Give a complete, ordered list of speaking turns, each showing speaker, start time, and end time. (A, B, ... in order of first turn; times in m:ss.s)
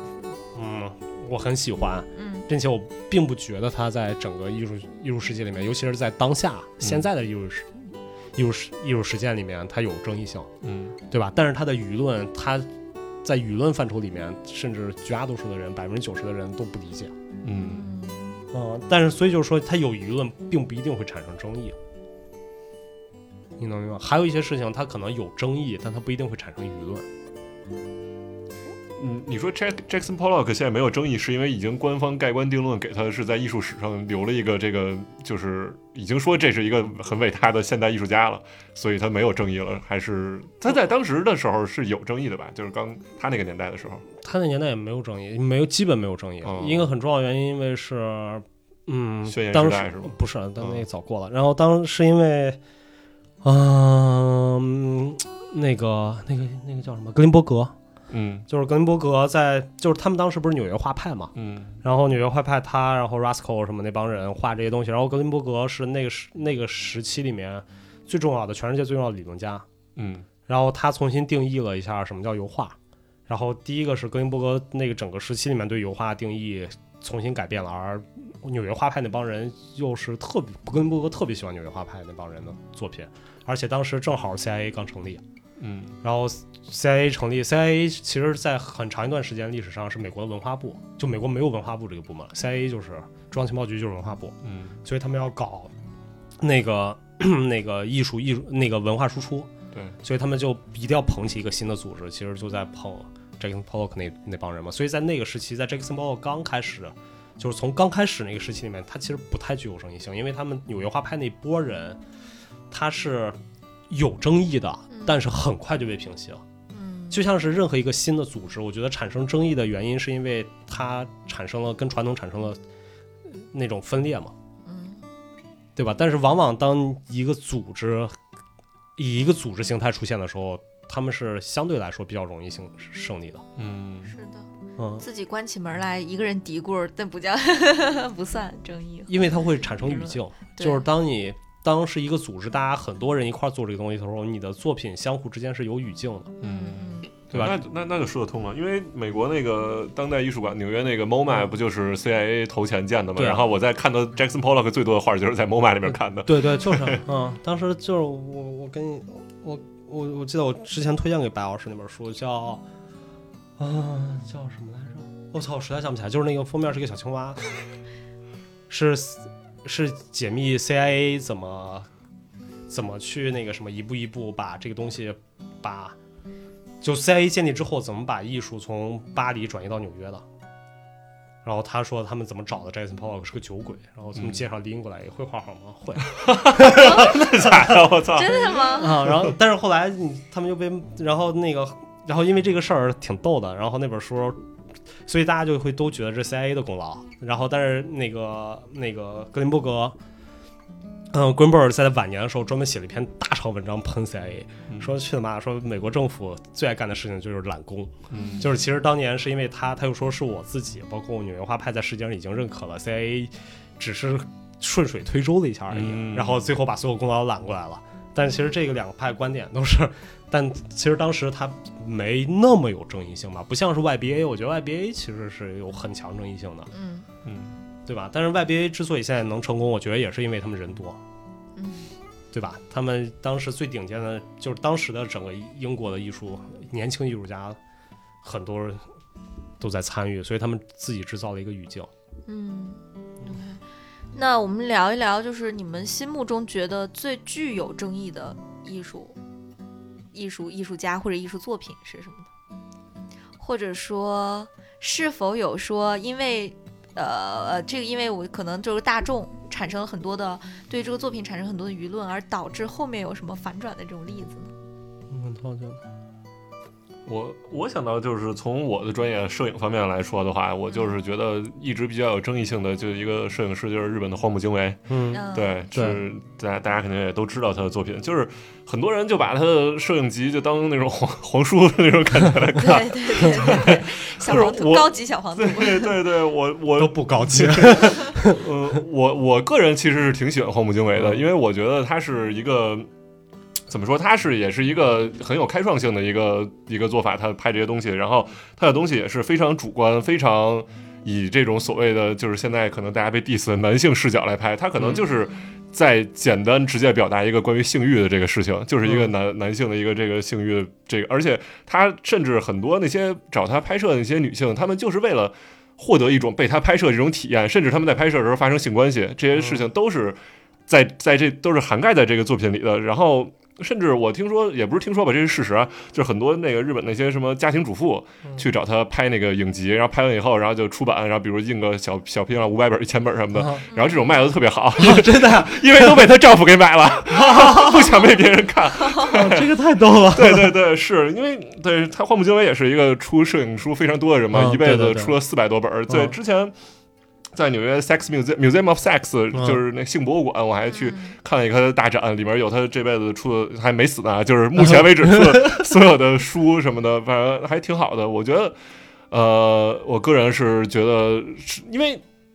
0:00.5-0:10.5 A
0:02.2-0:02.5 B
0:10.6-0:11.0 C
0:11.1-0:12.7 A
0:13.2-0:17.1 A
0:17.4-0:17.9 C
0:17.6-0:18.4 B
0:18.5-0:21.8 A
0:23.6-0:27.1 A
0:29.0-0:44.1 C
0:44.2-0:52.6 A
0:46.4-0:46.9 C
0:49.3-0:50.8 C
0:53.4-0:57.8 A
0:58.1-0:58.4 C
0:58.5-1:01.3 A
1:01.4-1:01.8 C
1:01.8-1:09.7 A
1:10.0-1:10.3 C
1:10.5-1:12.8 A
1:13.3-1:25.2 A
1:25.6-1:26.0 C
1:26.0-1:35.7 A
1:34.4-1:34.8 C
1:36.4-1:39.5 A
1:40.0-1:52.0 A
1:52.7-1:53.4 A
1:53.9-1:56.4 A
1:54.9-1:55.2 B
1:56.7-1:57.2 B
1:57.1-2:02.6 A
2:03.3-2:04.3 A
2:04.6-2:05.0 B
2:05.8-2:08.2 A
2:09.0-2:13.4 A
2:13.6-2:14.1 C
2:14.1-2:14.5 B
2:14.8-2:15.0 A
2:15.0-2:20.9 B
2:19.1-2:26.3 A
2:26.4-2:27.1 B
2:26.4-2:37.0 C
2:27.3-2:27.6 A
2:33.2-2:33.5 A
2:36.2-2:42.6 A
2:43.6-2:47.5 A
2:48.7-2:51.9 A
2:52.7-2:56.0 A
2:56.8-3:00.2 A
3:01.4-3:08.0 A
3:04.2-3:04.4 C
3:06.0-3:09.3 C
3:06.8-3:07.1 B
3:08.1-3:09.1 B
3:08.8-3:14.4 A
3:15.1-3:20.0 A
3:21.1-3:46.7 A
3:28.1-3:28.4 C
3:28.1-3:28.5 B
3:35.7-3:36.5 C
3:46.7-3:47.1 B
3:47.2-3:47.6 C
3:47.9-3:51.0 A
3:51.6-3:51.9 B
3:52.3-3:57.6 A
3:58.2-3:58.9 A
3:59.6-4:01.9 A
4:02.3-4:03.6 B
4:04.1-4:09.2 B
4:10.1-4:12.3 B
4:13.4-4:24.5 B
4:25.1-4:25.8 A
4:27.1-4:52.9 C
4:30.7-4:31.0 B
4:34.9-4:36.0 A
4:35.1-4:35.6 B
4:42.6-4:46.0 B
4:46.8-4:48.4 A
4:51.0-4:51.3 A
4:53.7-5:46.5 C
5:04.8-5:05.0 A
5:05.2-5:05.5 B
5:08.8-5:09.1 A
5:19.3-5:19.7 A
5:33.3-5:33.6 A
5:33.7-5:34.0 B
5:34.8-5:36.1 A
5:37.1-5:38.0 A
5:39.0-5:40.6 A
5:44.3-5:45.2 A
5:45.9-5:46.2 A
5:47.3-5:58.6 C
5:49.3-5:49.6 A
5:50.7-5:51.2 B
5:54.6-5:55.6 A
5:59.1-6:02.0 C